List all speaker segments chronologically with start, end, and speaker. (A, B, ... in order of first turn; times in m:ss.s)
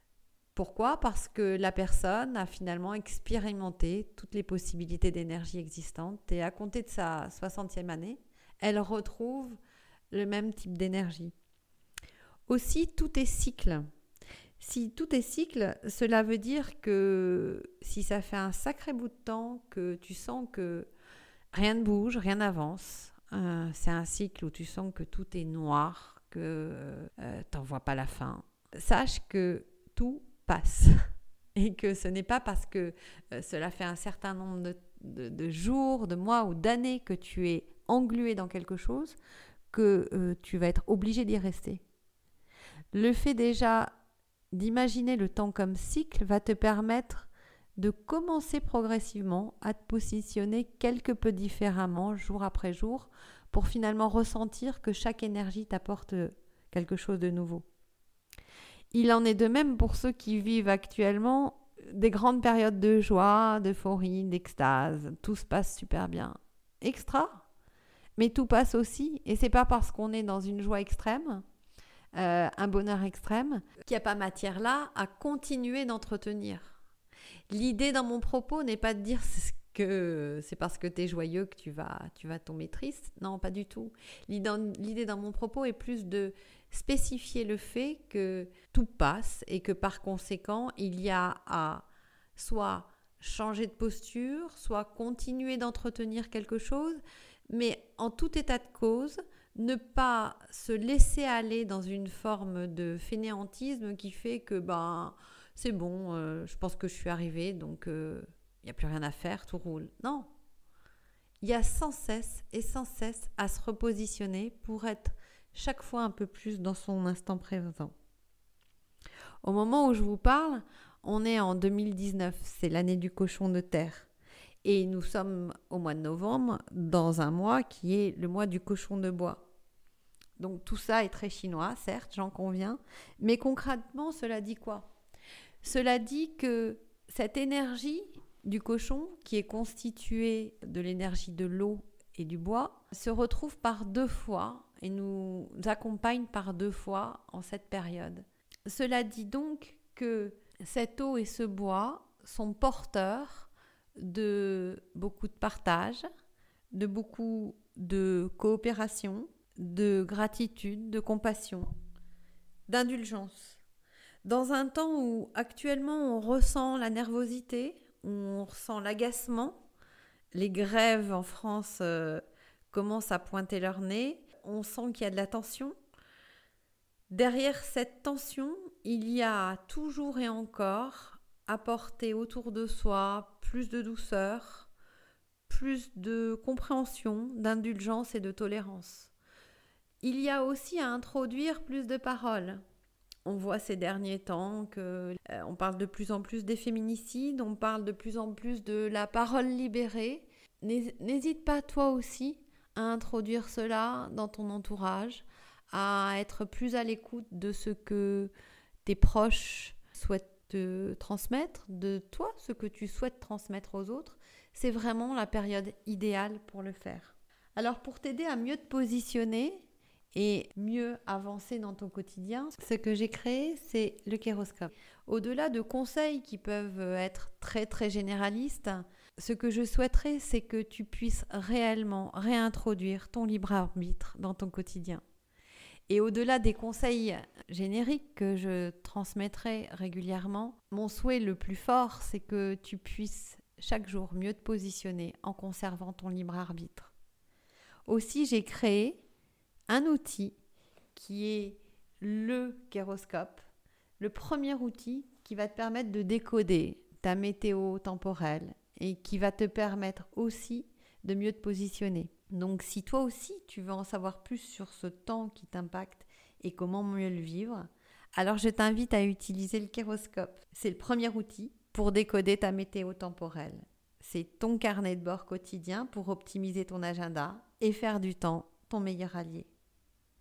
0:00.5-0:09.6 A
0:10.1-0:11.3 A
0:12.5-0:13.9 A
0:14.6-0:20.9 A
0:21.5-0:39.2 A
0:39.7-0:41.8 A
0:42.9-0:43.9 A
0:44.5-0:57.6 A
0:58.9-1:07.4 A
1:08.2-1:11.4 A
1:12.1-1:16.8 A
1:17.5-1:50.3 A
1:51.4-1:57.9 A
1:59.4-2:04.1 A
2:04.6-2:09.4 A
2:10.4-2:14.9 A
2:15.6-2:36.0 A
2:36.7-2:41.7 A
2:42.7-2:43.6 A
2:44.2-2:49.6 A
2:50.3-2:55.7 A
2:57.1-3:04.7 A
3:05.5-3:09.1 A
3:10.0-3:12.6 A
3:13.2-3:28.3 A
3:28.8-3:55.0 A
3:55.9-4:06.9 A
4:07.9-4:09.0 A
4:09.7-4:10.4 A
4:10.9-4:13.5 A
4:14.0-4:39.5 A